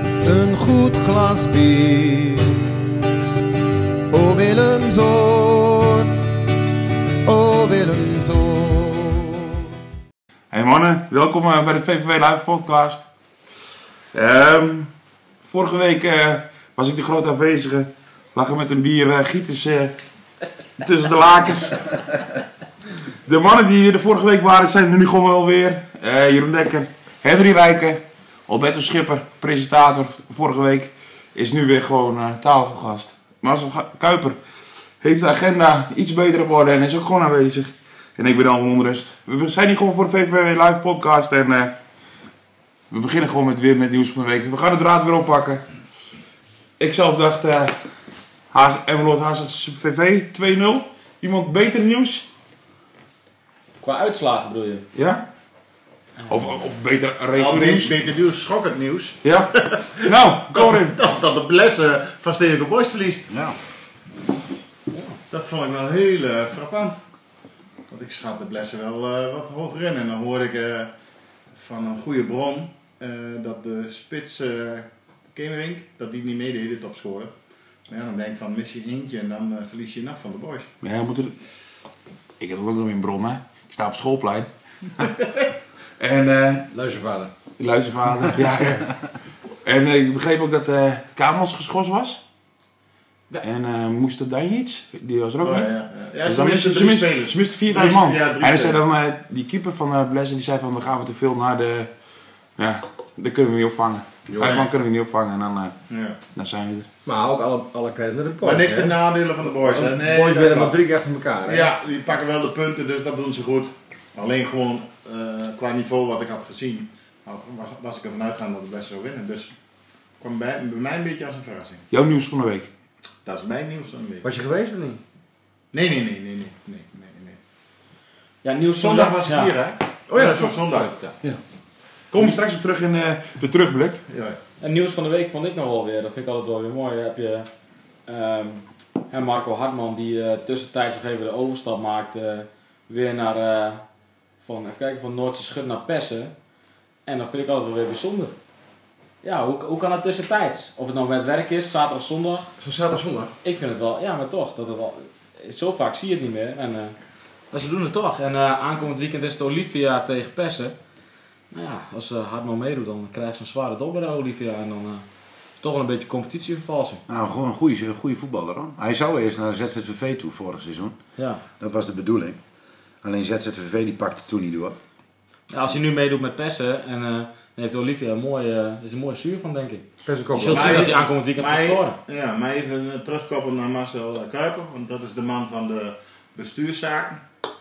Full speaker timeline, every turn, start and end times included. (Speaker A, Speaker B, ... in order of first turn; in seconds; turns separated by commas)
Speaker A: 0.2-2.5, Speaker A: 4.1-6.1, Speaker A: 7.2-9.3, Speaker B: 10.5-13.1, Speaker B: 14.1-14.9, Speaker B: 15.4-19.9, Speaker B: 20.8-22.1, Speaker B: 23.2-34.4, Speaker B: 35.0-41.7, Speaker B: 42.9-45.6, Speaker B: 46.8-47.7, Speaker B: 48.5-52.3, Speaker C: 53.8-54.9, Speaker B: 54.9-55.2, Speaker C: 56.2-56.5, Speaker B: 56.3-58.0, Speaker D: 57.3-63.3, Speaker B: 59.2-61.0, Speaker E: 63.3-63.6, Speaker D: 65.3-67.0, Speaker D: 67.9-70.9, Speaker D: 71.5-77.3, Speaker D: 77.9-80.7, Speaker B: 80.8-81.3, Speaker B: 82.4-85.2, Speaker B: 86.0-86.7, Speaker F: 86.7-87.3, Speaker B: 87.6-89.0, Speaker B: 89.6-92.2, Speaker B: 93.4-95.7, Speaker D: 95.4-98.8, Speaker B: 96.2-101.9, Speaker B: 102.6-105.7, Speaker F: 104.3-104.5, Speaker D: 104.4-104.7, Speaker D: 105.9-106.2, Speaker B: 106.3-106.9, Speaker F: 107.0-109.0, Speaker D: 108.4-110.8, Speaker F: 109.5-111.7, Speaker D: 111.5-119.5, Speaker D: 120.2-121.8, Speaker B: 121.9-122.7, Speaker D: 123.2-124.2, Speaker F: 124.2-125.0, Speaker D: 125.7-127.4, Speaker C: 128.4-129.5, Speaker D: 128.8-130.9, Speaker F: 130.1-131.1, Speaker B: 132.1-134.0, Speaker D: 134.1-134.4, Speaker C: 134.6-137.5, Speaker C: 138.1-143.8, Speaker C: 144.4-146.3, Speaker C: 147.0-148.3, Speaker C: 149.2-152.5, Speaker F: 152.6-153.3, Speaker C: 153.4-156.9, Speaker C: 157.5-160.8, Speaker C: 161.5-165.0, Speaker C: 165.6-167.0, Speaker E: 167.1-171.0, Speaker C: 171.2-171.4, Speaker E: 171.6-172.4, Speaker E: 173.0-174.8, Speaker C: 175.5-182.0, Speaker F: 180.1-180.9, Speaker D: 180.5-187.2